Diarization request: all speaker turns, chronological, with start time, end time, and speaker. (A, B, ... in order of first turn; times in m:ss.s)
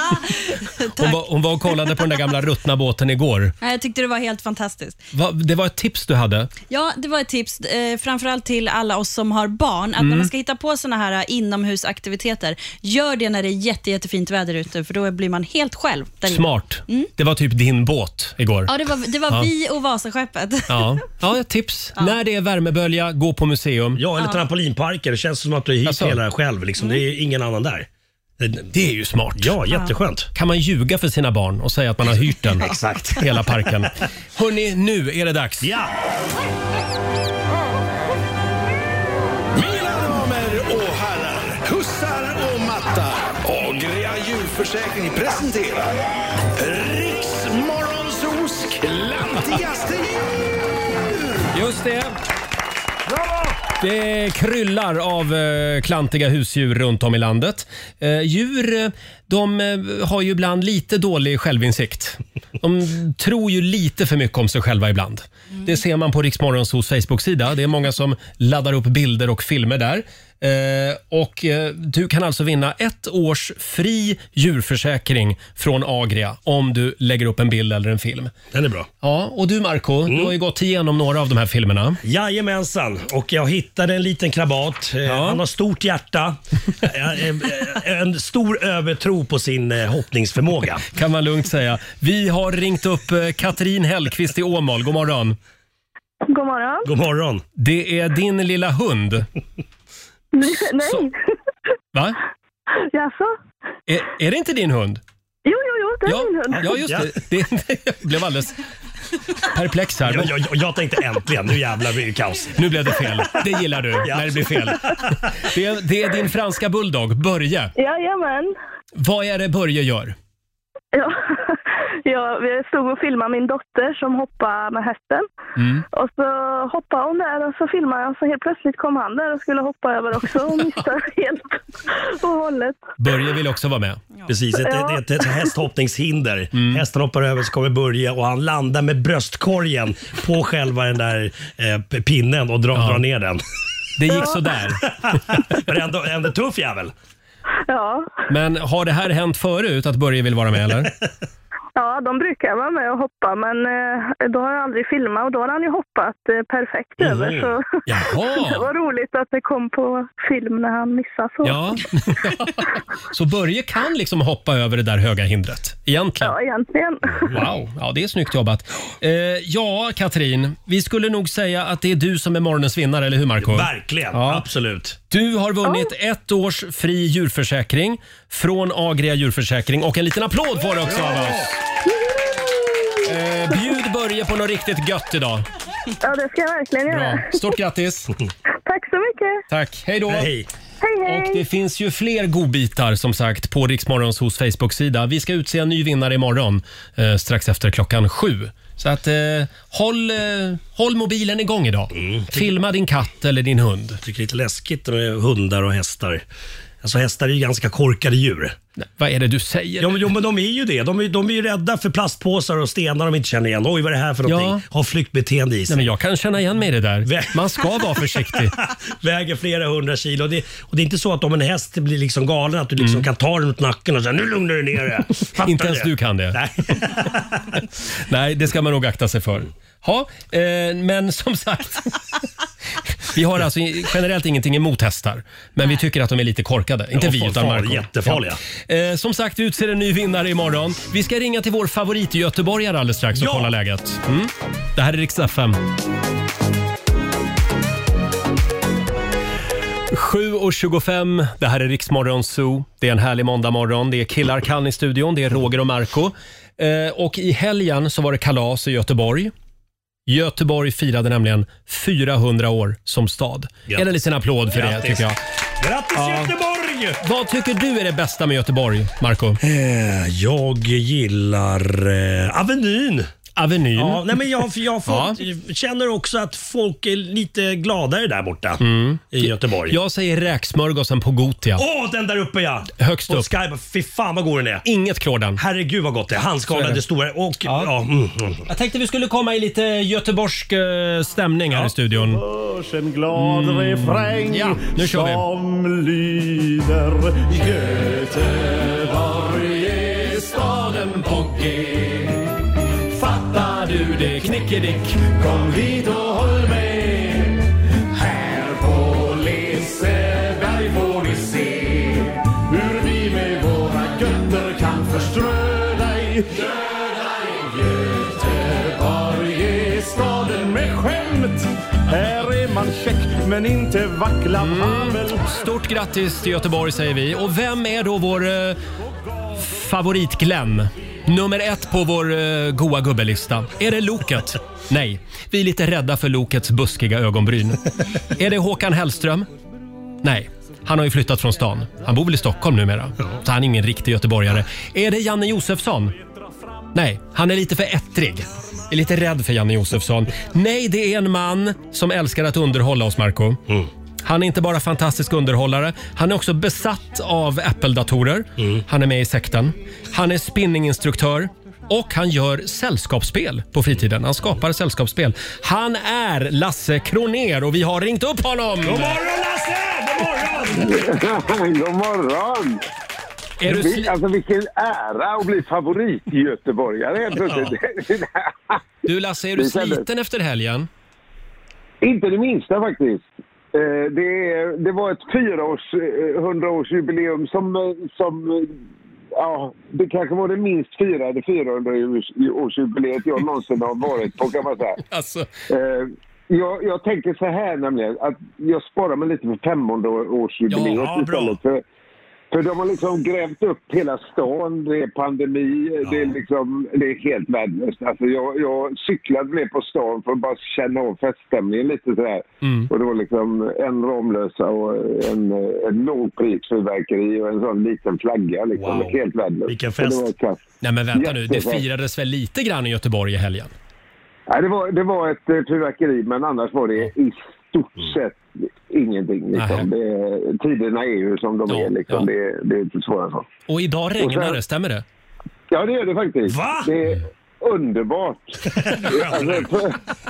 0:00.1-0:01.2 A
0:01.0-0:03.5 B
0:03.6-0:05.0 A
0:05.1-0:06.5 B
0:06.7-0:17.1 A
0:10.0-0:10.3 B
0:16.2-0:18.7 B
0:18.7-0:20.9 A
0:20.7-0:24.0 B
0:24.0-0:27.9 C
0:25.8-0:26.2 B
0:28.4-0:28.7 C
0:28.7-0:29.6 B
0:29.4-0:30.3 C
0:30.3-0:35.7 B
0:32.6-0:33.3 C
0:35.6-0:35.9 C
0:39.5-0:46.0 D
0:46.6-0:50.2 D
0:51.5-0:52.1 B
0:53.8-1:18.3 B
1:18.5-1:18.9 C
1:19.0-1:22.0 B
1:20.1-1:20.3 C
1:22.0-1:30.9 C
1:25.0-1:25.4 B
1:30.9-1:35.4 B
1:36.3-1:36.9 E
1:36.8-1:37.4 C
1:37.6-1:39.3 B
1:40.3-1:41.1 E
1:40.8-1:41.1 B
1:42.8-1:43.3 E
1:43.9-1:45.0 B
1:45.4-1:46.8 E
1:46.0-1:48.6 B
1:46.6-1:47.1 C
1:49.5-1:50.3 B
1:50.0-1:52.6 C
1:52.6-1:57.7 B
1:54.0-1:55.3 C
1:57.8-1:58.5 E
1:58.9-2:00.2 B
2:00.9-2:05.2 E
2:05.6-2:05.8 B
2:05.9-2:12.9 E
2:13.0-2:14.0 B
2:14.3-2:23.4 C
2:14.6-2:15.5 E
2:16.5-2:16.8 B
2:22.7-2:23.0 B
2:24.0-2:24.8 B
2:24.1-2:24.4 E
2:24.9-2:26.9 C
2:27.7-2:28.1 E
2:28.3-2:30.9 B
2:31.7-2:41.7 E
2:37.0-2:37.5 C
2:37.9-2:38.7 B
2:41.4-2:46.3 B
2:46.2-2:47.4 E
2:47.3-2:54.4 B
2:53.4-2:55.0 C
2:55.1-3:01.6 B
2:55.6-2:55.9 E
3:00.9-3:01.5 C
3:01.8-3:03.7 E
3:03.0-3:05.4 B
3:06.0-3:07.4 E
3:06.9-3:08.1 B
3:08.6-3:09.4 E
3:09.5-3:10.3 B
3:10.1-3:10.5 C
3:10.8-3:11.4 E
3:11.0-3:24.0 B
3:21.9-3:22.5 C
3:24.0-3:26.2 C
3:26.8-3:28.6 C
3:28.8-3:30.1 B
3:29.8-3:35.9 C
3:34.2-3:34.6 B
3:35.7-3:38.6 B
3:37.0-3:47.4 C
3:42.8-3:43.1 B
3:45.4-3:46.4 B
3:48.1-3:52.0 B
3:53.1-4:05.6 B
3:56.9-3:58.4 C
4:03.2-4:03.5 C
4:09.9-4:19.3 B
4:20.1-4:25.2 B
4:24.5-4:25.0 C
4:25.6-4:27.0 C
4:25.9-4:26.3 B
4:27.0-4:29.4 B
4:29.4-4:33.1 C
4:33.4-4:34.1 B
4:33.8-4:39.8 C
4:34.8-4:35.2 B
4:38.6-4:41.6 B
4:41.6-4:44.6 C
4:42.8-4:43.3 B
4:44.6-4:45.4 B
4:45.4-4:48.4 C
4:46.5-4:46.8 B
4:47.4-4:47.7 B
4:48.5-4:52.2 B
4:52.0-5:02.1 F
4:53.1-4:55.3 B
5:00.5-5:01.8 B
5:03.0-5:03.4 F
5:03.1-5:05.0 B
5:05.0-5:25.4 F
5:24.4-5:28.6 B
5:29.0-5:29.5 F
5:29.4-5:39.3 B
5:40.0-5:45.9 B
5:46.0-5:46.7 F
5:46.7-5:53.4 B
5:54.0-6:09.0 B
6:08.6-6:10.8 C
6:10.6-6:12.6 G
6:13.4-6:13.9 B
6:13.4-6:18.6 G
6:17.1-6:17.6 C
6:18.8-6:20.7 B
6:19.4-6:19.8 G
6:21.8-6:28.6 G
6:29.1-6:34.8 G
6:34.8-6:35.3 B
6:35.5-6:41.6 G
6:40.5-6:40.8 B
6:40.6-6:41.4 C
6:42.3-7:00.4 G
6:45.8-6:46.2 C
6:52.4-6:52.7 B
6:58.5-7:00.1 C
7:00.6-7:03.5 B
7:00.9-7:01.6 G
7:04.3-7:13.3 G
7:09.3-7:09.7 B
7:11.5-7:12.1 B
7:13.5-7:14.8 B
7:14.0-7:14.4 G
7:15.5-7:19.8 G
7:16.3-7:16.7 C
7:18.5-7:19.5 C